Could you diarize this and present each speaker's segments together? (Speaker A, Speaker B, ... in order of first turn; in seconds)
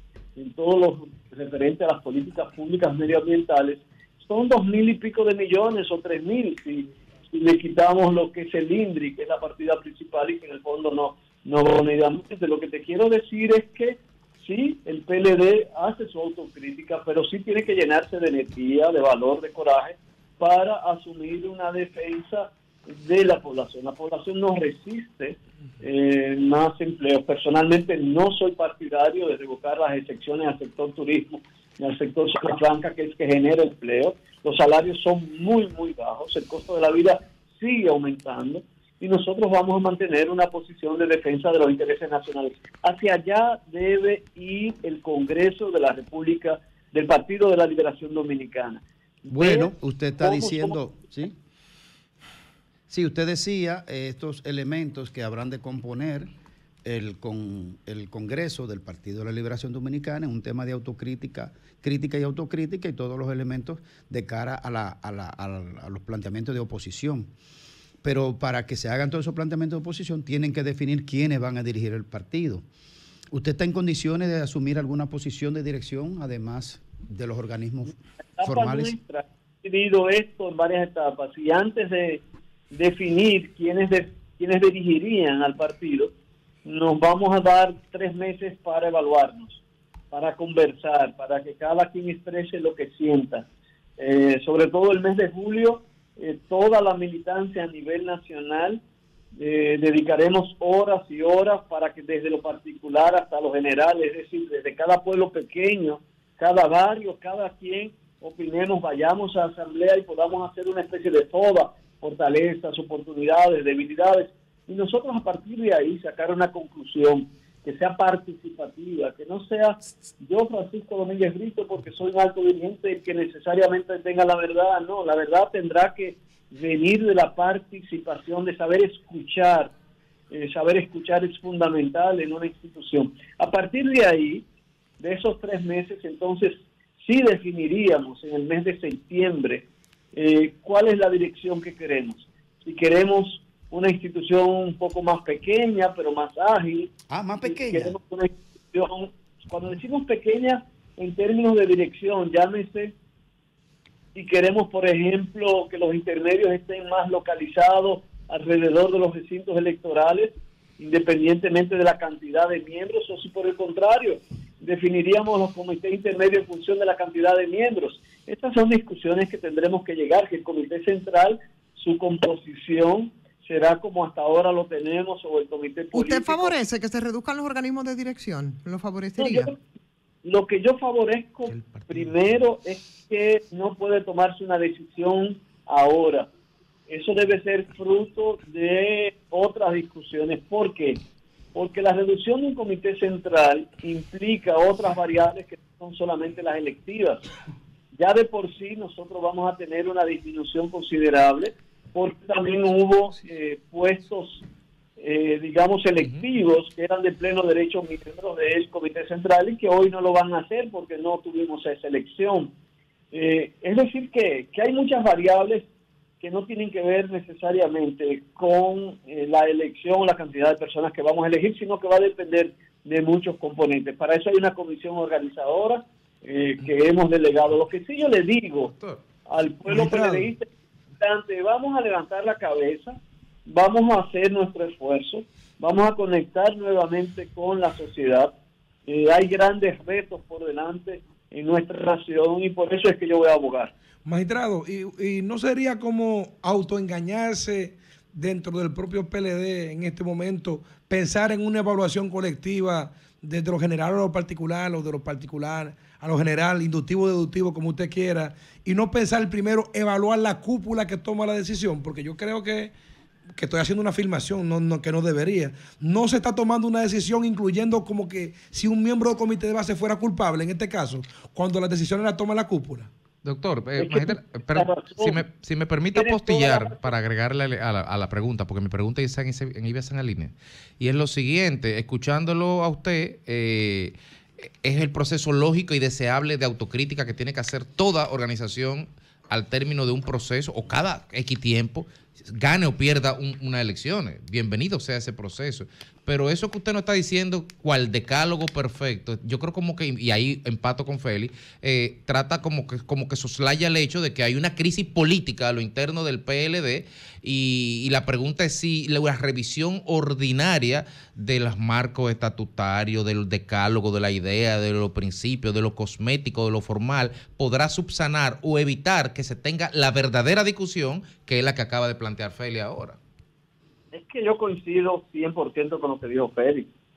Speaker A: 0.4-50.8, 78.4-86.1, 86.7-89.6, 90.1-93.5, 94.0-98.8, 99.3-129.7, 130.3-134.4, 135.0-152.9, 154.2-176.6, 179.2-179.6, 180.2-186.3, 186.9-191.0, 191.5-197.2, 197.9-204.4, 205.0-212.5, 213.1-215.7, 216.2-228.7, 229.3-238.3, 238.9-243.7, 273.8-275.2, 275.9-276.9, 323.9-326.7
Speaker B: 49.3-51.4, 52.9-56.3, 56.9-67.3, 68.0-72.7, 73.3-79.0, 147.1-148.0
Speaker C: 175.9-179.5
Speaker D: 181.5-182.1, 206.0-206.2, 228.8-229.0, 273.2-323.0
Speaker E: 229.7-230.3, 244.1-262.7, 263.4-272.9